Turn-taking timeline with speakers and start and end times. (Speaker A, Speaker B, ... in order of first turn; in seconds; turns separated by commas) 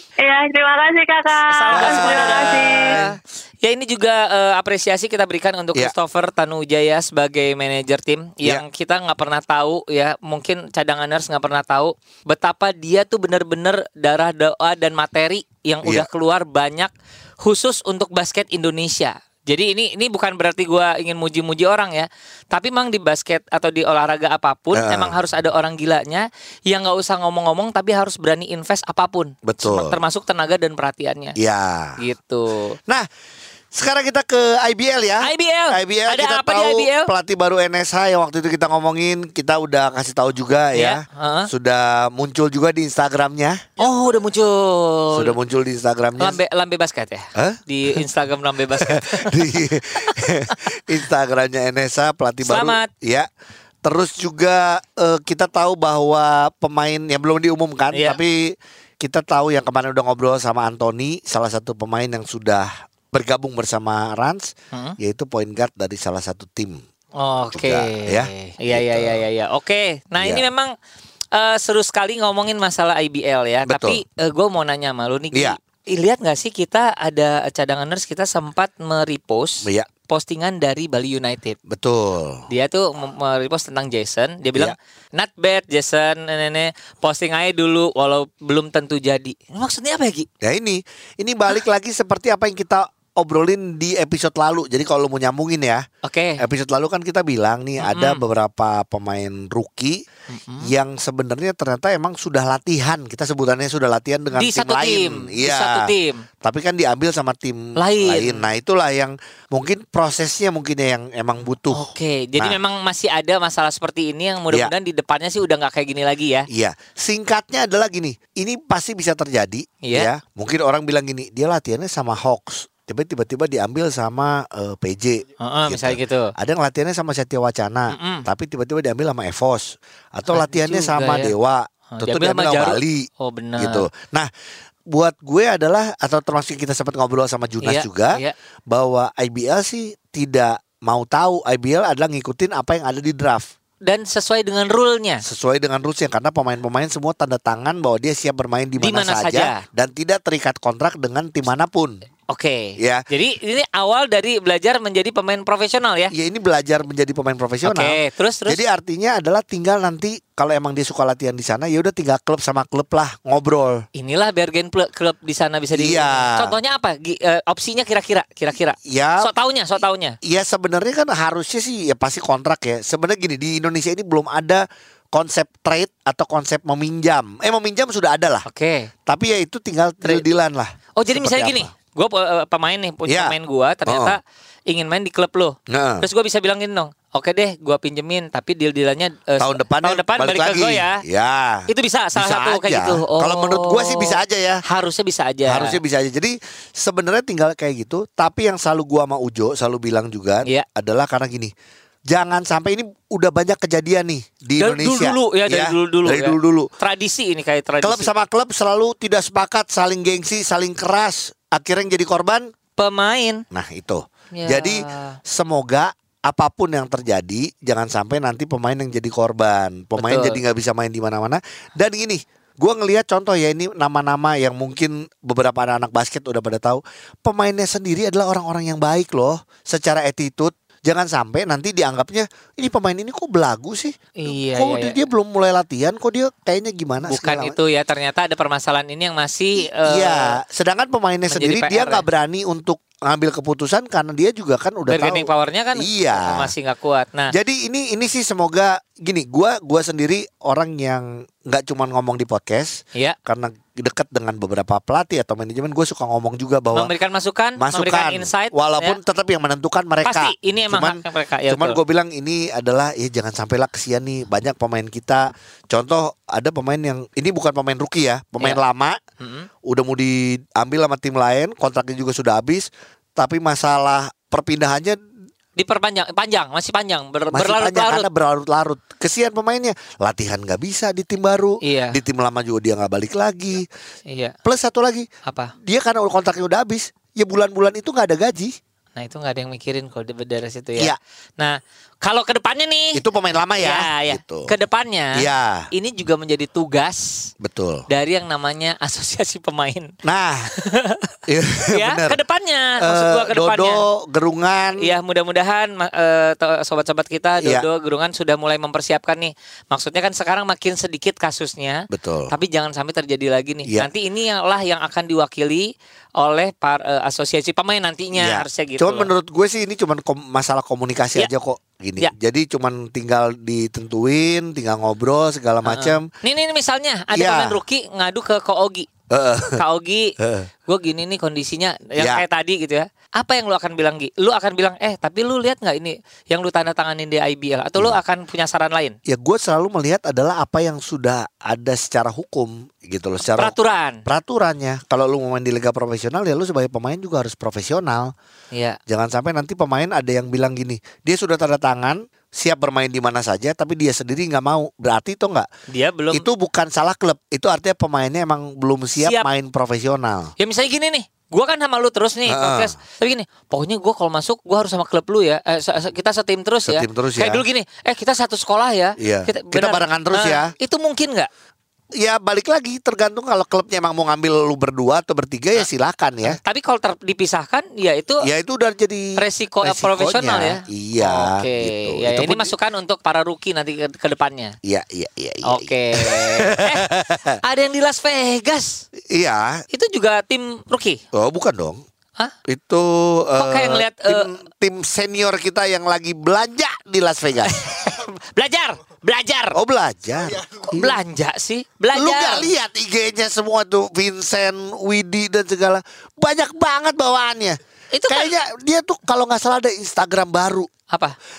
Speaker A: 0.2-3.0, Speaker B: 1.4-16.9, Speaker C: 1.7-3.2, Speaker B: 17.4-31.4, Speaker C: 24.7-25.1, Speaker C: 29.4-30.0, Speaker C: 31.4-32.0, Speaker B: 32.0-32.8, Speaker C: 33.7-43.6, Speaker B: 35.2-37.1, Speaker B: 40.7-41.5, Speaker B: 43.8-45.4, Speaker C: 45.1-46.4, Speaker B: 46.2-49.4, Speaker C: 47.4-48.0, Speaker C: 48.8-53.3, Speaker B: 52.5-52.9, Speaker C: 53.8-66.8, Speaker B: 57.9-58.2, Speaker B: 67.2-70.7, Speaker C: 67.5-69.2, Speaker C: 70.2-70.5, Speaker B: 71.3-81.6, Speaker C: 73.7-74.0, Speaker C: 81.7-82.5, Speaker B: 82.5-90.3, Speaker C: 90.4-95.8, Speaker B: 96.0-96.4, Speaker C: 96.4-100.0, Speaker B: 97.8-98.2, Speaker B: 100.3-100.7, Speaker C: 100.6-105.9, Speaker B: 104.3-106.2, Speaker C: 106.4-112.6, Speaker B: 107.8-108.5, Speaker B: 111.7-116.5, Speaker C: 116.5-133.1, Speaker B: 119.8-120.1, Speaker B: 125.4-126.3, Speaker B: 127.9-128.3, Speaker B: 130.3-131.3, Speaker B: 131.9-133.9, Speaker C: 133.6-134.3, Speaker C: 134.9-138.2, Speaker B: 137.6-138.3, Speaker C: 138.7-143.5, Speaker B: 143.8-145.2, Speaker C: 145.2-152.0, Speaker B: 148.8-149.6, Speaker B: 152.3-156.1, Speaker C: 152.8-153.0, Speaker C: 156.1-163.8, Speaker B: 157.7-158.6, Speaker B: 163.9-170.2, Speaker C: 165.7-166.5, Speaker C: 168.8-169.3, Speaker C: 170.2-178.5, Speaker B: 178.5-178.9, Speaker C: 179.1-181.7, Speaker B: 181.0-191.0, Speaker C: 183.1-183.3, Speaker C: 183.9-184.2, Speaker C: 185.7-186.1, Speaker C: 189.4-194.6, Speaker B: 191.7-195.8, Speaker C: 195.5-201.5, Speaker C: 202.1-206.7, Speaker B: 204.6-208.1, Speaker C: 207.8-212.5, Speaker B: 212.8-213.4, Speaker C: 213.5-234.0, Speaker B: 214.3-215.2, Speaker B: 220.0-220.4, Speaker B: 234.2-235.0, Speaker C: 234.5-237.6, Speaker B: 237.0-240.4, Speaker C: 239.6-246.5, Speaker B: 241.3-242.1, Speaker B: 244.9-247.3, Speaker C: 247.3-256.9, Speaker B: 256.8-259.0, Speaker C: 257.6-269.0, Speaker B: 260.1-261.8, Speaker B: 269.2-269.5, Speaker C: 269.6-275.0, Speaker B: 275.6-278.1, Speaker C: 277.3-283.7, Speaker B: 281.6-282.0, Speaker B: 284.1-284.4, Speaker C: 284.4-285.1, Speaker B: 285.3-285.5, Speaker C: 285.6-288.6, Speaker B: 289.0-293.0, Speaker C: 292.9-294.5, Speaker B: 293.6-297.3, Speaker C: 295.1-295.7, Speaker C: 297.4-297.9, Speaker B: 297.9-299.9, Speaker C: 300.0-300.5, Speaker B: 300.6-301.1, Speaker C: 301.3-302.2, Speaker B: 301.7-303.8, Speaker C: 302.8-304.9, Speaker B: 304.8-319.1, Speaker C: 311.9-312.3, Speaker C: 318.1-326.1, Speaker B: 325.6-328.9, Speaker C: 327.1-327.6, Speaker C: 329.1-329.6, Speaker B: 329.6-330.1, Speaker C: 330.2-330.5, Speaker B: 330.7-339.0, Speaker C: 332.0-332.2, Speaker C: 339.1-343.5, Speaker B: 343.4-344.0, Speaker C: 344.1-348.1, Speaker B: 348.5-348.8, Speaker C: 348.9-355.5, Speaker B: 355.7-356.3, Speaker C: 356.1-360.3, Speaker B: 359.0-359.3, Speaker B: 360.4-371.3, Speaker C: 362.3-362.7, Speaker C: 366.6-367.4, Speaker C: 369.0-370.5, Speaker C: 372.0-376.4, Speaker B: 376.3-378.3, Speaker C: 378.2-382.5, Speaker B: 379.2-384.6, Speaker C: 384.6-387.4, Speaker B: 385.5-386.9, Speaker B: 387.4-388.9, Speaker C: 389.1-389.6, Speaker B: 389.7-391.0, Speaker C: 391.1-391.8, Speaker C: 392.5-397.7, Speaker B: 393.4-394.3, Speaker B: 397.5-399.6, Speaker C: 399.5-401.0, Speaker B: 400.6-402.5, Speaker C: 401.9-410.7, Speaker B: 407.9-408.3, Speaker B: 410.9-411.2